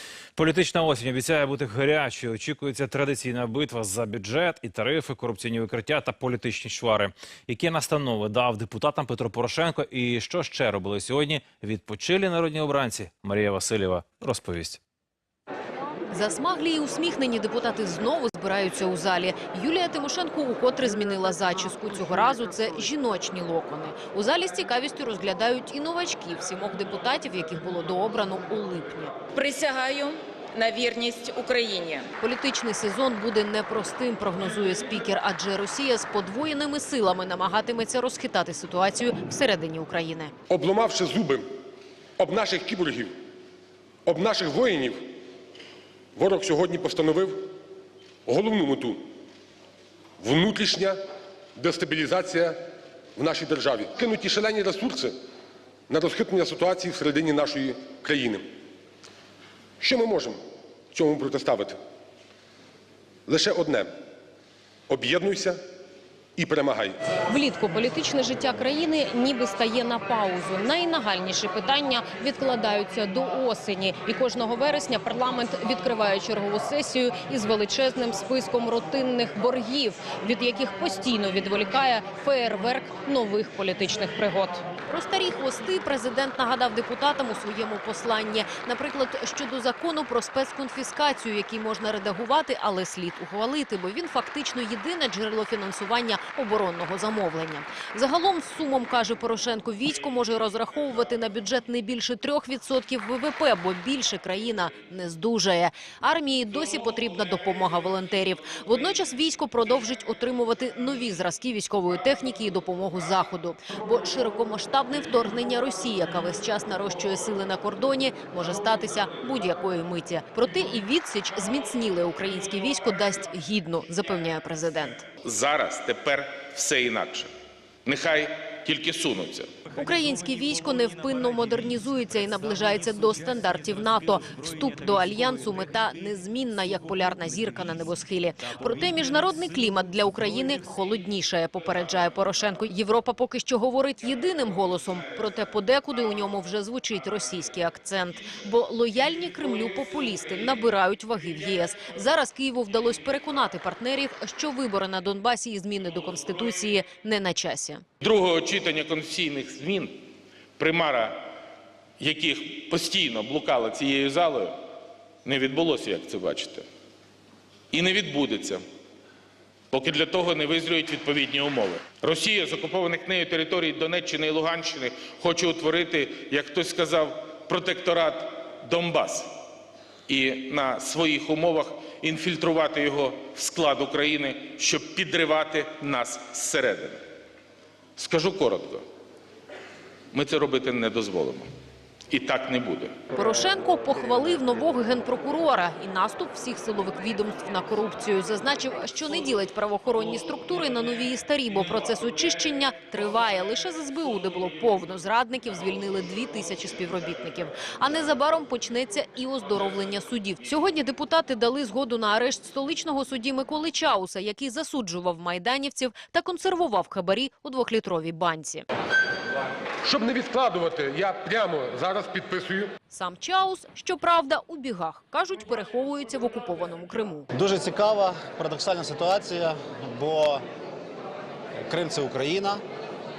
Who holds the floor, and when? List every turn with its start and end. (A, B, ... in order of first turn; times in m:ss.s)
0:00.4-0:14.8 A
0:16.1-0:29.1 B
0:29.4-0:32.1 C
0:32.2-0:40.3 B
0:40.5-0:41.5 D
0:42.2-0:43.2 D
0:44.1-0:45.0 D
0:46.2-0:47.5 D
0:48.3-0:49.0 D
0:50.2-0:51.0 D
0:51.6-0:52.6 D
0:53.2-0:55.1 D
0:55.9-0:58.4 D
0:59.8-1:00.4 D
1:00.9-1:01.8 D
1:03.3-1:03.9 D
1:04.9-1:05.6 D
1:06.4-1:07.0 D
1:07.2-1:24.6 E
1:24.9-2:05.0 B
2:05.2-2:07.3 F
2:07.8-2:09.5 F
2:09.7-2:37.8 B
2:38.0-2:41.2 F
2:42.0-2:44.6 F
2:45.2-2:46.6 F
2:47.7-2:48.6 F
2:49.7-2:59.3 F
3:00.1-3:07.0 F
3:08.0-3:08.8 F
3:10.1-3:11.5 F
3:12.1-3:13.0 F
3:13.1-3:38.7 B
3:39.8-3:42.7 D
3:42.9-3:47.3 B
3:47.3-3:50.4 G
3:51.6-3:52.6 G